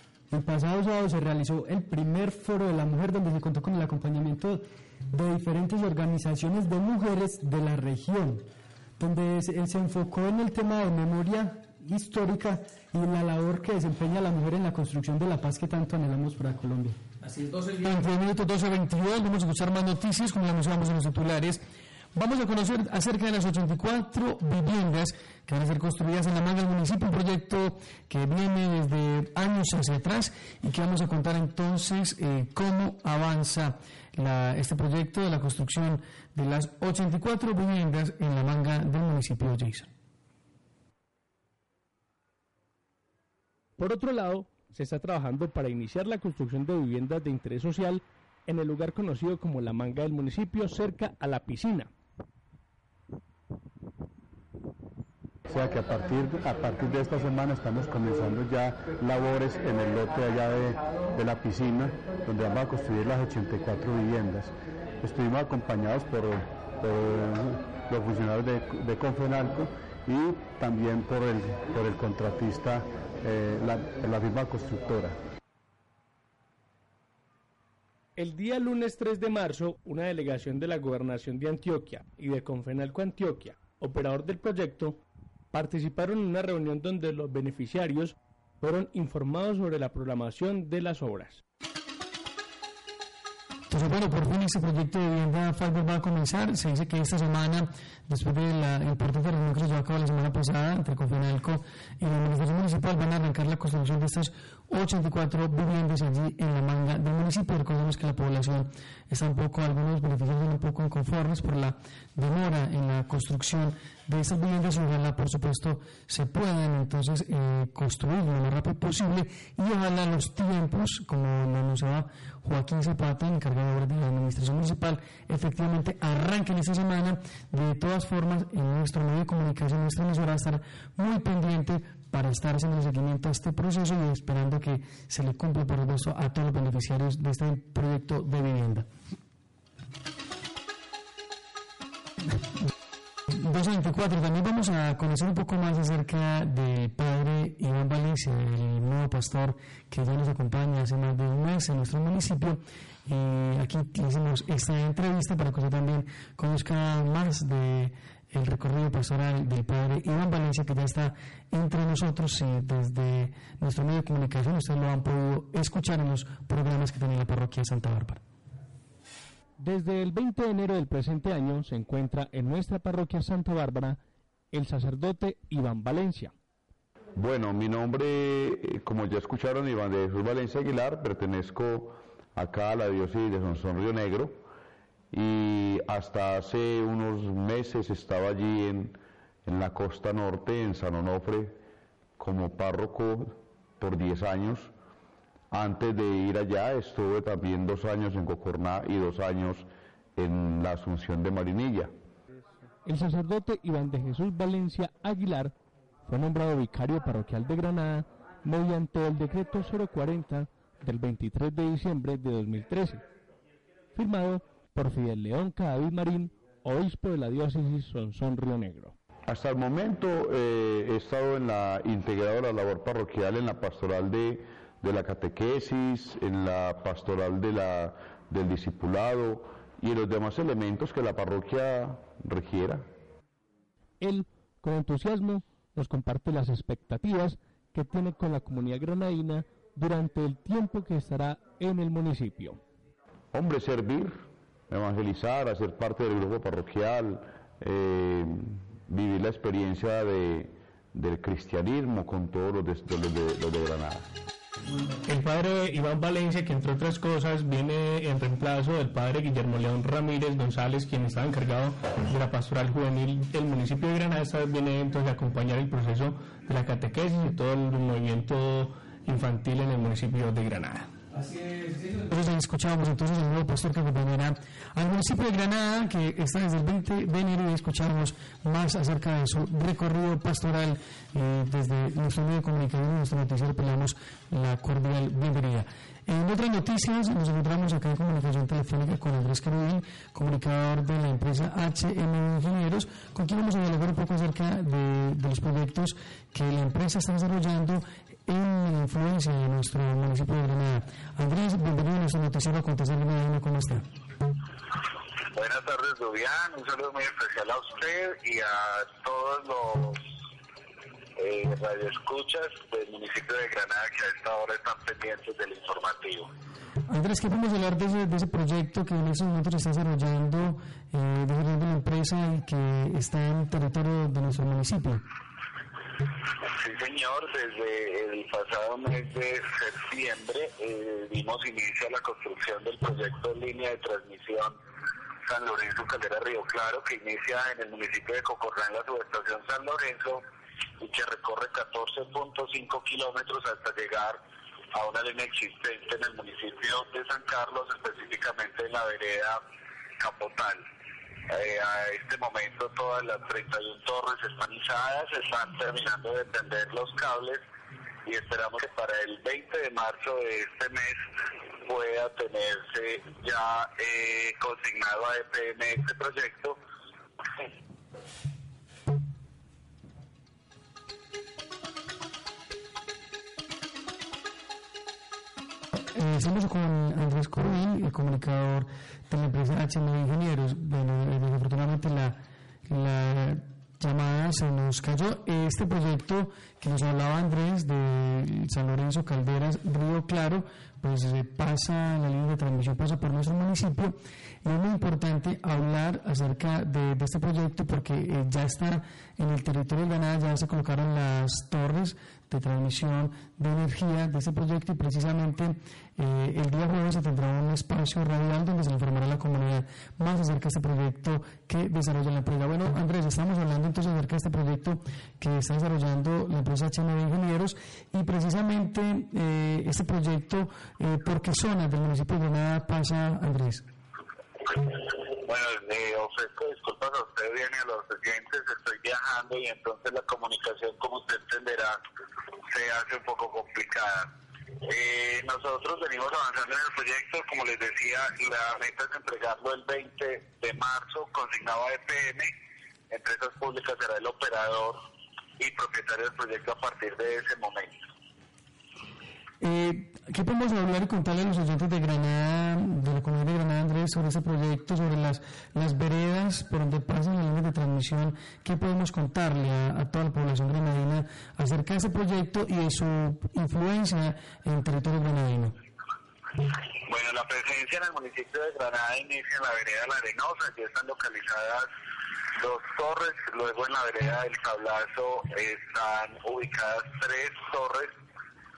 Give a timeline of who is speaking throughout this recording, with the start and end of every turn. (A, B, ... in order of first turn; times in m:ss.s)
0:00.3-0:08.4 A
0:09.0-0:17.0 A
0:17.8-0:39.9 B
0:43.8-0:51.9 C
0:55.5-1:15.2 D
1:18.2-1:25.0 C
1:25.5-1:31.4 C
1:33.7-2:18.9 B
2:23.3-2:48.2 B
2:49.6-2:54.0 C
2:54.5-2:56.3 C
2:57.1-3:04.4 E
3:05.1-3:11.6 E
3:12.2-3:14.7 E
3:15.5-3:21.9 E
3:22.8-3:25.5 C
3:26.1-3:33.0 C
3:34.0-3:38.9 C
3:39.3-3:52.9 E
3:54.0-4:02.6 C
4:03.3-4:14.1 E
4:15.1-4:30.9 F
4:32.1-5:03.8 B
5:05.3-5:10.0 G
5:11.2-5:16.3 G
5:16.9-5:25.0 B
5:26.5-5:34.6 G
5:35.3-5:40.2 G
5:40.8-5:44.2 G
5:44.7-5:49.4 G
5:50.0-5:50.7 G
5:51.3-5:57.4 G
5:58.1-6:01.1 G
6:01.6-6:06.6 G
6:15.7-7:03.6 B
7:04.5-7:11.8 G
7:12.5-7:14.1 G
7:14.6-7:22.3 G
7:22.9-7:24.8 G
7:25.4-7:27.9 G
7:29.4-7:45.6 B
7:46.9-7:51.7 G
7:52.4-7:57.9 G